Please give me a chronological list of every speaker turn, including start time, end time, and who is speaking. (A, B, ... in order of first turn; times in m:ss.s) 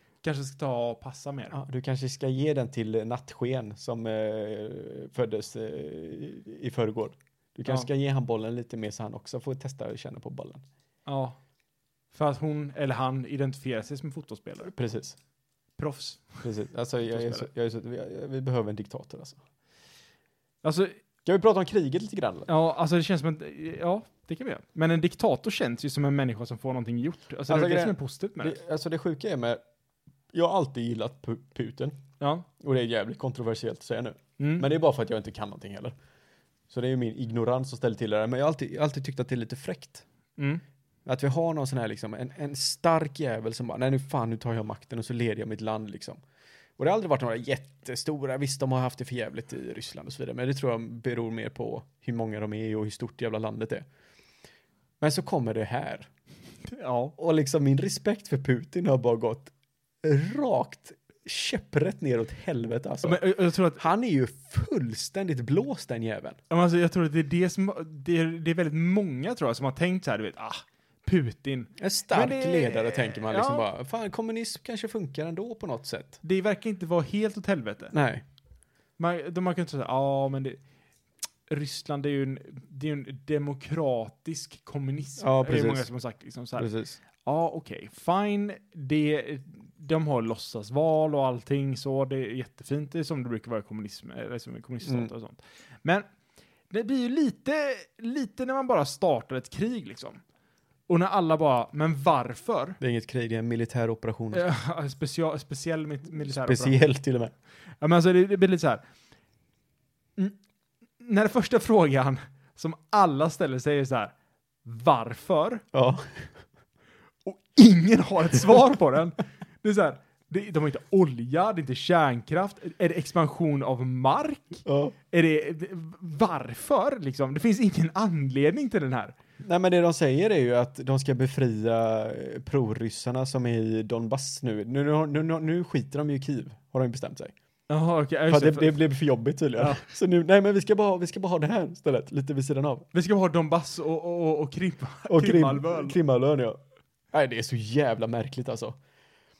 0:00.2-0:01.5 A
0:01.5-0:10.6 B
0:11.0-0:11.4 A
0:12.1-0:14.7 A
0:14.6-0:15.2 B
0:15.8-0:16.4 A
0:16.4-0:19.4 B
0:17.1-0:17.5 A
0:20.6-0:21.0 A
0:21.2-0:22.5 B
0:22.5-0:28.6 A
0:27.5-0:29.6 B
0:30.3-0:32.0 B
0:32.2-0:32.4 A
0:32.6-0:35.9 B
0:34.4-0:34.7 A
0:36.7-0:40.0 B
0:40.4-0:40.6 A
0:41.0-0:46.2 B
0:46.8-0:53.8 B
0:55.0-0:56.1 B
0:56.7-0:57.1 A
0:57.2-0:59.5 B
1:00.0-1:03.2 B
1:03.0-1:03.8 A
1:03.8-1:06.4 B
1:06.5-1:13.7 A
1:11.8-1:16.2 B
1:16.2-1:17.9 A
1:17.9-1:18.2 B
1:19.0-1:20.6 A
1:21.5-1:36.0 A
1:25.2-1:25.9 B
1:26.6-1:27.0 B
1:34.8-1:35.1 B
1:36.7-1:40.2 A
1:40.9-1:42.8 A
1:42.8-1:44.4 B
1:44.3-1:46.8 A
1:46.2-1:47.3 B
1:47.8-1:48.8 A
1:51.0-1:54.1 A
1:54.6-1:55.6 A
1:55.7-1:56.3 B
1:57.2-2:09.1 A
2:04.6-2:04.9 B
2:09.4-2:17.3 B
2:17.7-2:18.8 A
2:18.3-2:22.9 B
2:19.6-2:19.8 A
2:22.9-2:26.0 A
2:25.1-2:26.6 B
2:27.1-2:28.8 B